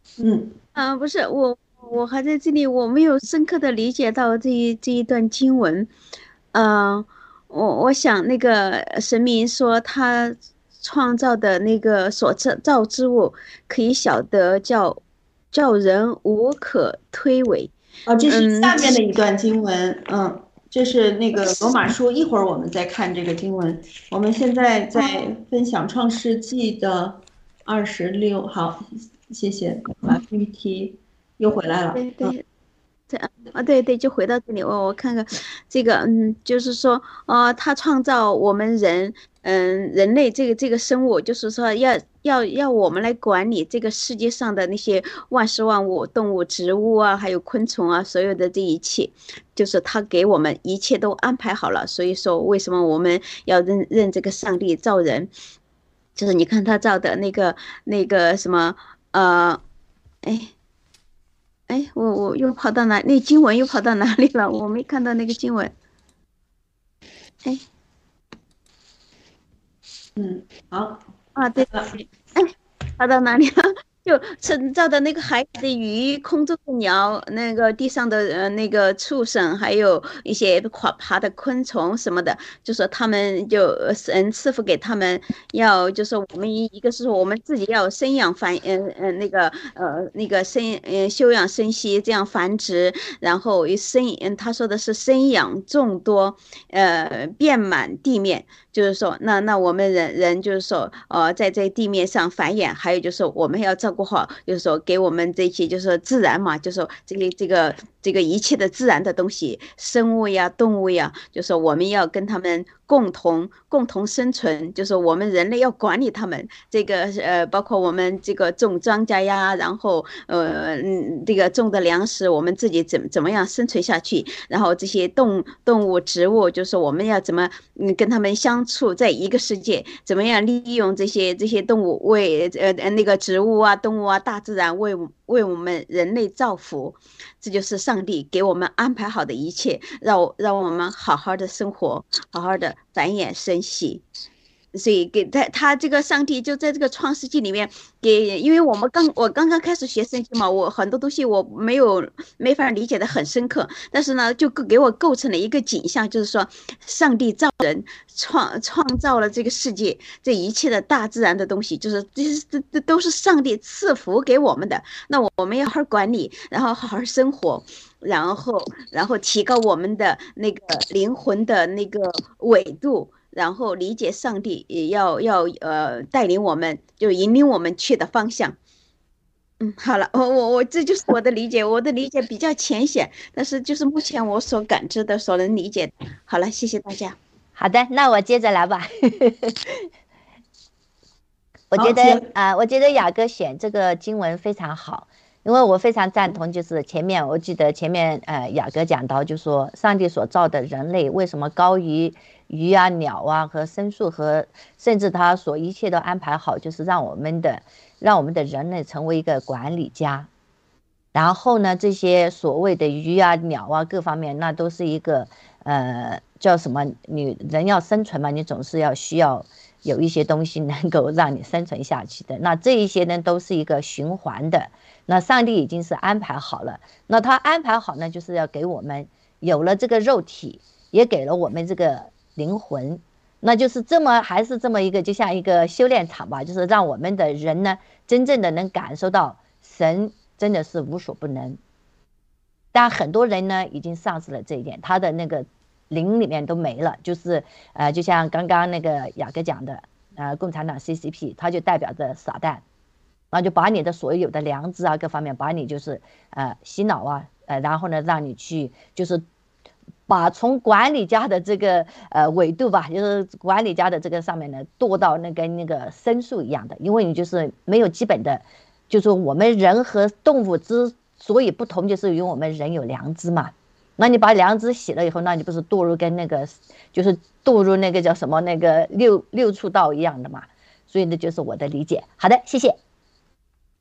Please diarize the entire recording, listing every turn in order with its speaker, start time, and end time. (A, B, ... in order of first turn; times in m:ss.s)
0:00.2-0:00.6 A
0:00.8-0:05.9 B
0:06.5-0:15.0 B
0:15.5-0:17.7 B
0:18.1-0:32.4 A
0:18.3-0:18.8 B
0:32.0-0:32.4 B
0:33.1-0:55.3 B
0:56.2-0:59.6 B
1:00.2-1:00.5 B
1:01.7-1:05.7 B
1:10.2-1:11.0 A
1:11.4-2:24.0 B
1:11.6-1:11.9 A
2:24.7-2:58.6 B
2:59.6-3:07.2 B
3:07.6-3:09.6 C
3:11.7-3:30.3 C
3:11.8-3:12.3 A
3:31.1-4:01.6 C
4:02.7-4:12.6 C
4:13.3-4:19.2 C
4:20.1-4:42.8 C